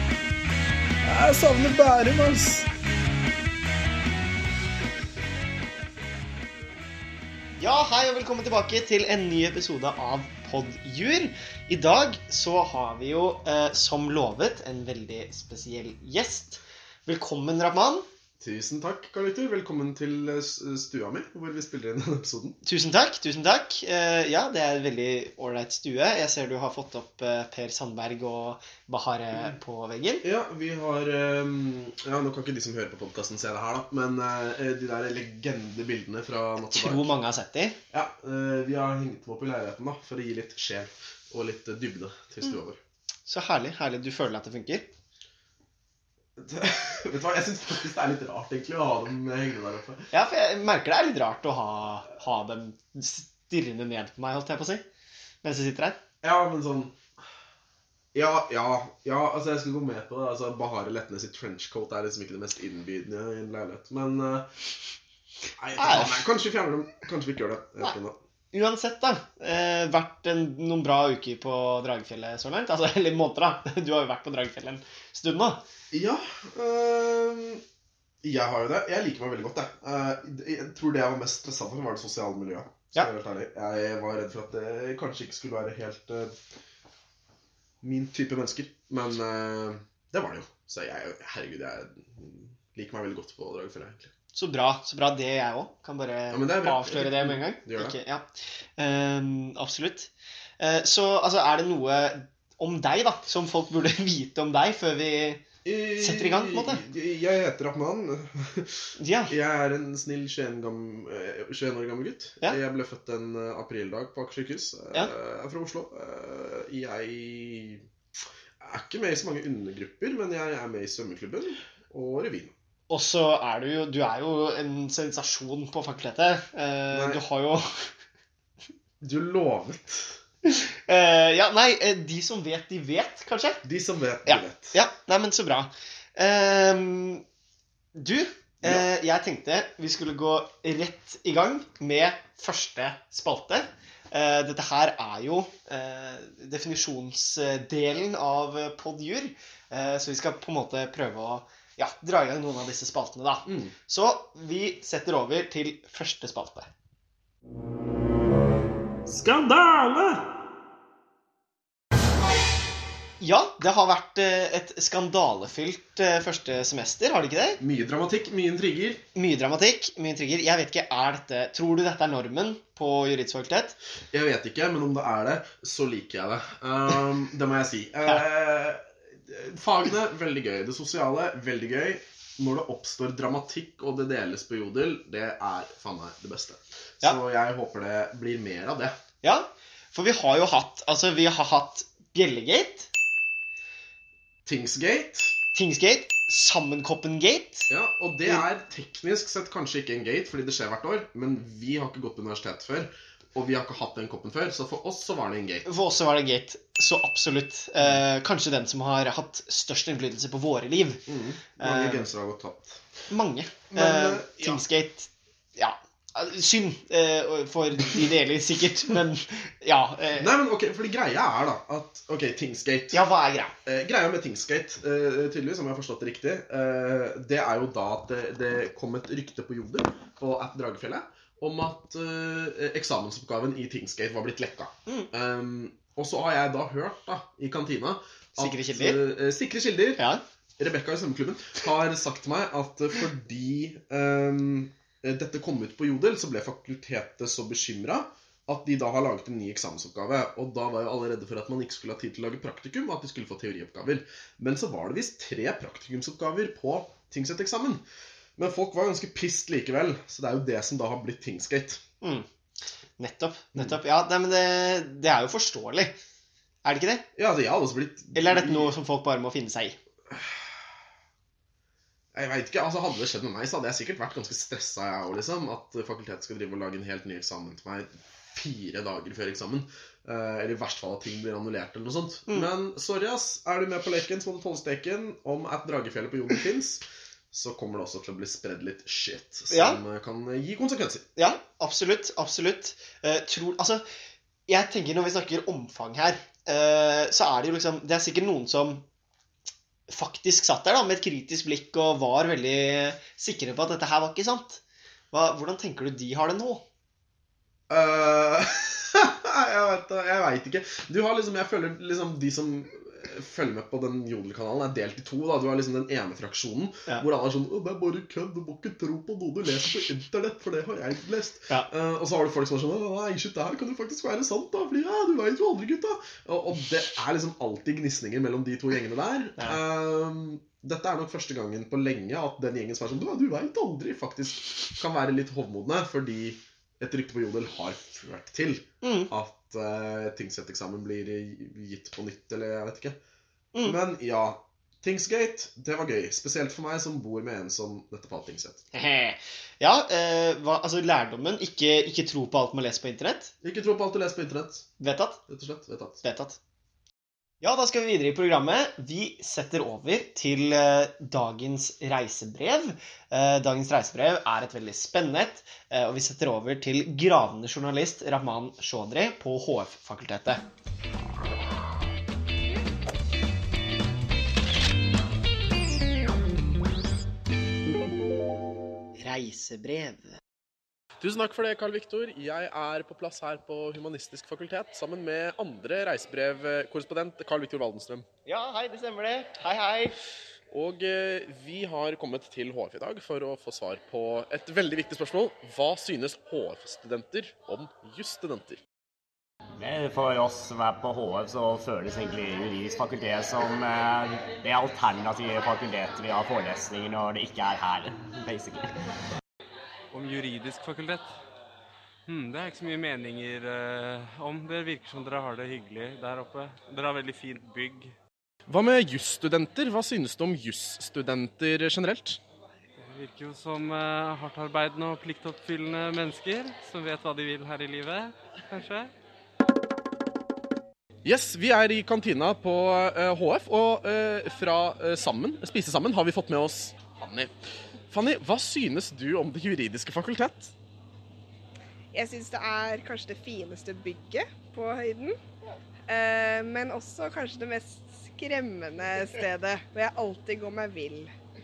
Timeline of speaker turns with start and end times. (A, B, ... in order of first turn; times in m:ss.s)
0:01.0-0:02.7 A
0:07.6-0:18.1 B
0:18.4-0:22.6 A
0:22.6-0:30.2 B
0:30.2-0:37.1 A
0:36.7-0:37.8 B
0:37.9-0:42.8 A
0:43.3-0:44.9 B
0:46.4-0:50.1 A
0:50.1-0:54.8 B
0:55.4-0:56.0 B
0:56.2-0:57.0 A
0:58.1-1:04.5 A
1:05.6-1:08.2 A
1:05.8-1:06.3 B
1:08.5-1:15.6 B
1:15.9-1:17.6 A
1:18.2-1:26.4 A
1:27.8-1:34.1 A
1:34.3-1:38.2 B
1:36.3-1:38.0 A
1:38.8-1:45.4 B
1:45.6-1:57.8 A
1:46.0-1:46.8 B
1:49.0-1:49.3 B
1:58.6-2:02.5 A
2:02.9-2:07.9 B
2:06.9-2:07.2 A
2:09.0-2:10.2 A
2:10.4-2:13.6 B
2:13.6-2:14.8 A
2:14.2-2:17.2 B
2:17.9-2:36.7 B
2:33.4-2:33.7 A
2:39.0-2:40.3 A
2:43.2-2:47.6 B
2:47.6-2:49.0 A
2:49.1-2:53.8 B
2:54.1-3:09.0 A
3:09.2-3:12.9 B
3:14.4-3:15.4 A
3:15.5-3:17.7 B
3:17.7-3:25.7 A
3:25.6-3:31.0 B
3:31.1-3:32.8 A
3:31.6-3:32.1 B
3:33.1-3:40.3 B
3:33.7-3:34.6 A
3:40.2-3:43.0 A
3:42.9-3:43.5 B
3:43.6-4:00.0 A
3:58.4-3:59.0 B
4:00.6-4:17.8 A
4:18.4-4:21.8 A
4:22.0-4:22.3 B
4:23.0-4:26.0 B
4:26.6-4:27.0 B
4:27.2-4:28.7 A
4:28.1-4:29.8 B
4:30.1-4:30.5 A
4:32.1-4:51.0 A
4:49.5-4:49.8 B
4:51.2-4:53.8 B
4:54.5-4:58.8 B
4:59.9-5:06.6 B
5:07.7-5:43.0 A
5:38.8-5:39.1 B
5:43.6-5:48.6 A
5:48.7-5:53.3 B
5:53.4-5:54.7 A
5:54.8-5:55.2 B
5:55.3-5:56.0 A
5:56.0-5:56.4 B
5:57.4-6:10.4 B
6:19.0-6:20.2 B
6:21.0-6:28.0 A
6:28.2-6:30.0 B
6:30.5-6:38.6 A
6:39.6-6:48.7 C
6:49.9-6:51.1 D
6:52.1-6:57.9 D
6:58.5-7:02.2 A
7:02.8-7:08.9 D
7:11.0-7:17.3 A
7:17.9-7:20.5 A
7:21.9-7:25.2 E
7:25.9-7:31.1 E